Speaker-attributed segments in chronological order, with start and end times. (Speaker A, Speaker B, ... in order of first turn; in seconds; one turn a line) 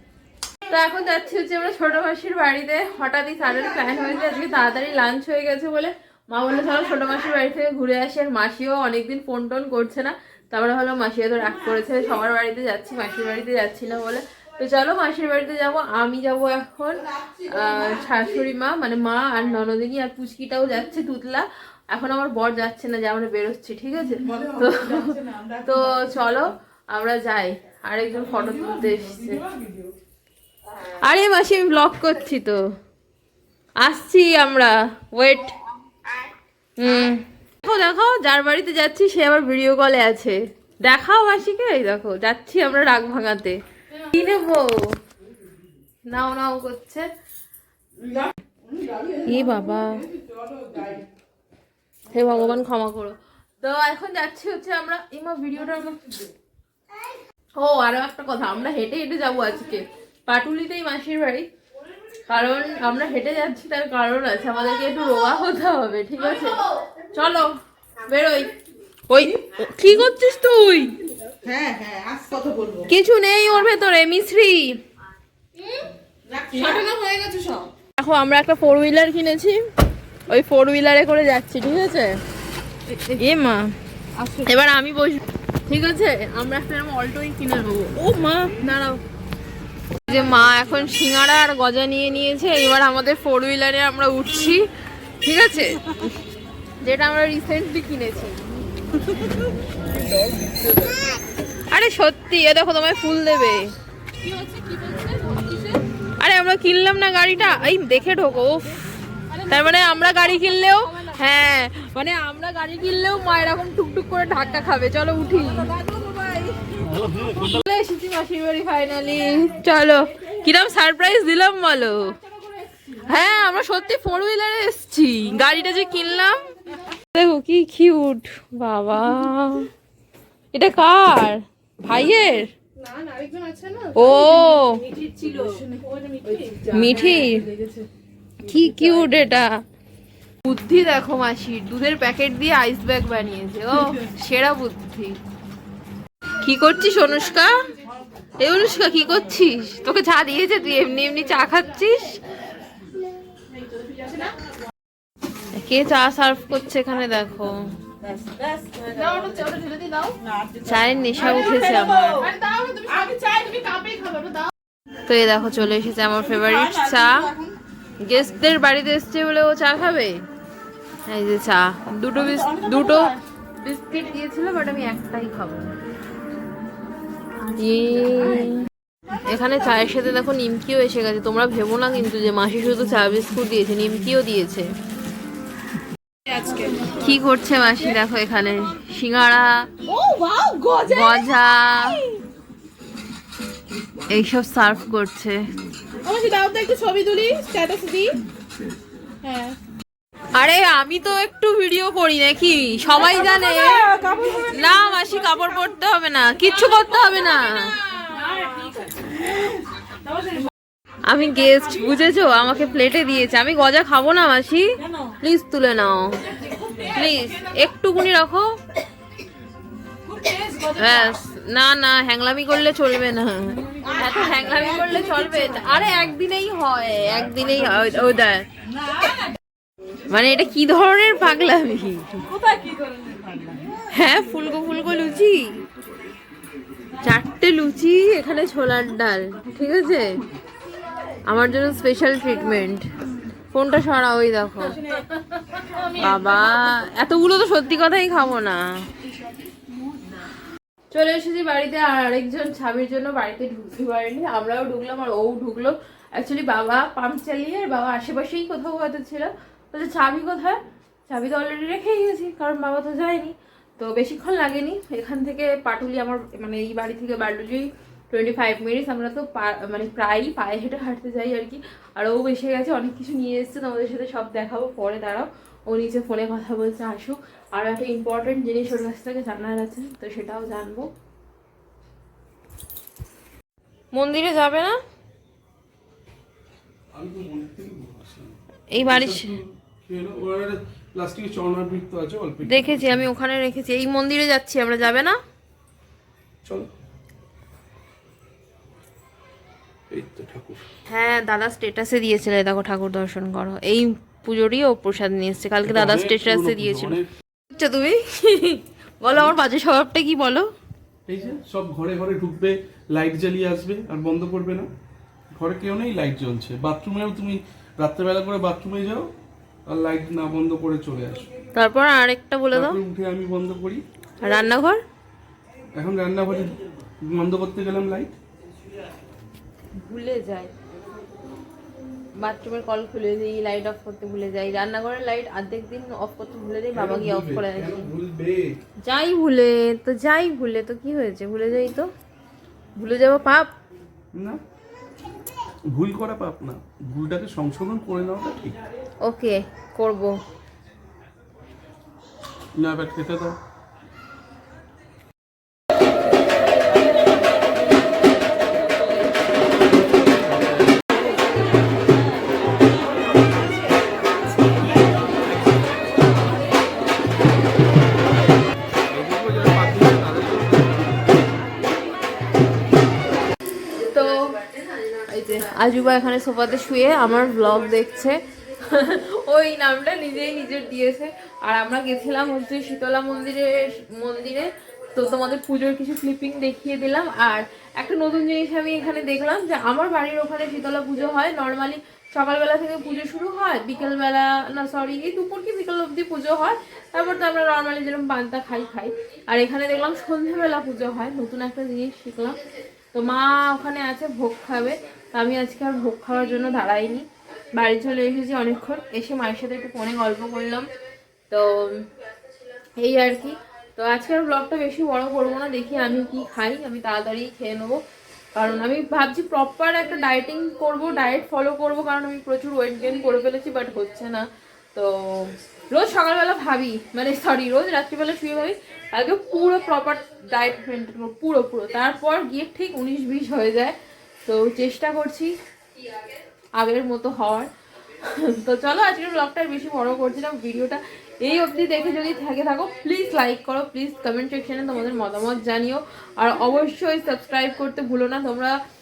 Speaker A: 0.7-29.4
Speaker B: 17.1-18.4
Speaker B: 24.1-26.5
Speaker B: 28.1-29.9
Speaker A: 30.8-32.6
Speaker A: 33.8-35.5
Speaker A: 36.8-44.9
Speaker A: 46.0-47.1
Speaker B: 48.0-51.0
Speaker A: 49.2-50.0
Speaker A: 52.1-56.0
Speaker A: 57.6-61.5
Speaker A: 62.3-67.5
Speaker A: 68.0-68.5
Speaker A: 69.1-70.9
Speaker B: 71.4-72.9
Speaker A: 72.9-74.7
Speaker B: 75.7-77.7
Speaker A: 76.5-76.8
Speaker A: 78.0-79.6
Speaker A: 80.3-82.2
Speaker B: 82.9-83.2
Speaker A: 83.2-83.7
Speaker B: 84.2-84.5
Speaker A: 84.4-89.0
Speaker B: 88.0-88.5
Speaker A: 90.1-94.6
Speaker A: 95.2-95.8
Speaker A: 96.8-98.4
Speaker A: 101.7-103.7
Speaker B: 104.2-105.8
Speaker A: 106.2-108.7
Speaker B: 109.3-109.7
Speaker A: 109.5-115.7
Speaker B: 115.6-116.8
Speaker A: 117.1-122.2
Speaker B: 122.2-122.9
Speaker A: 123.0-126.5
Speaker A: 127.0-129.7
Speaker A: 130.5-132.5
Speaker B: 132.8-137.9
Speaker A: 133.9-135.4
Speaker A: 136.7-137.4
Speaker A: 138.4-139.5
Speaker B: 138.6-138.9
Speaker A: 140.4-145.2
Speaker A: 146.4-147.6
Speaker A: 148.4-152.2
Speaker B: 153.8-154.3
Speaker A: 155.5-157.7
Speaker B: 158.0-164.5
Speaker A: 160.6-162.2
Speaker A: 165.1-167.2
Speaker B: 166.1-167.6
Speaker A: 168.0-170.2
Speaker A: 171.1-175.7
Speaker B: 172.1-173.2
Speaker A: 177.5-178.6
Speaker A: 179.2-184.7
Speaker B: 186.3-187.1
Speaker A: 186.9-189.7
Speaker B: 189.8-192.2
Speaker A: 190.8-192.0
Speaker A: 194.1-195.4
Speaker B: 196.0-198.2
Speaker B: 199.2-199.6
Speaker A: 200.3-203.9
Speaker B: 202.9-205.6
Speaker A: 204.5-207.8
Speaker B: 207.8-210.5
Speaker A: 211.1-216.2
Speaker B: 214.8-215.1
Speaker B: 216.2-217.7
Speaker A: 216.8-218.6
Speaker B: 220.0-221.2
Speaker A: 220.7-228.5
Speaker B: 223.6-225.9
Speaker B: 228.7-229.3
Speaker A: 230.1-232.1
Speaker B: 232.2-233.8
Speaker A: 233.9-235.6
Speaker A: 237.0-240.2
Speaker A: 241.3-242.8
Speaker A: 243.5-244.8
Speaker B: 244.7-246.5
Speaker A: 245.9-248.6
Speaker A: 250.9-280.9
Speaker A: 283.9-284.8
Speaker C: 286.9-293.1
Speaker A: 288.7-289.3
Speaker A: 292.4-295.2
Speaker C: 299.9-300.6
Speaker A: 300.9-310.5
Speaker C: 305.6-307.1
Speaker C: 311.1-314.7
Speaker C: 315.3-319.1
Speaker C: 319.7-321.3
Speaker A: 321.6-322.8
Speaker C: 322.5-323.8
Speaker A: 324.2-324.8
Speaker C: 325.7-328.1
Speaker A: 329.8-330.5
Speaker A: 332.2-337.9
Speaker C: 336.7-338.6
Speaker A: 338.8-341.9
Speaker A: 342.8-343.5
Speaker C: 344.1-344.4
Speaker C: 345.7-348.6
Speaker A: 349.0-350.2
Speaker C: 352.6-353.4
Speaker C: 359.9-360.2
Speaker C: 369.0-370.8
Speaker A: 373.7-374.2
Speaker A: 375.1-402.4
Speaker A: 402.9-410.7
Speaker A: 411.3-411.9
Speaker A: 412.8-417.8
Speaker A: 418.4-435.3
Speaker A: 436.6-448.6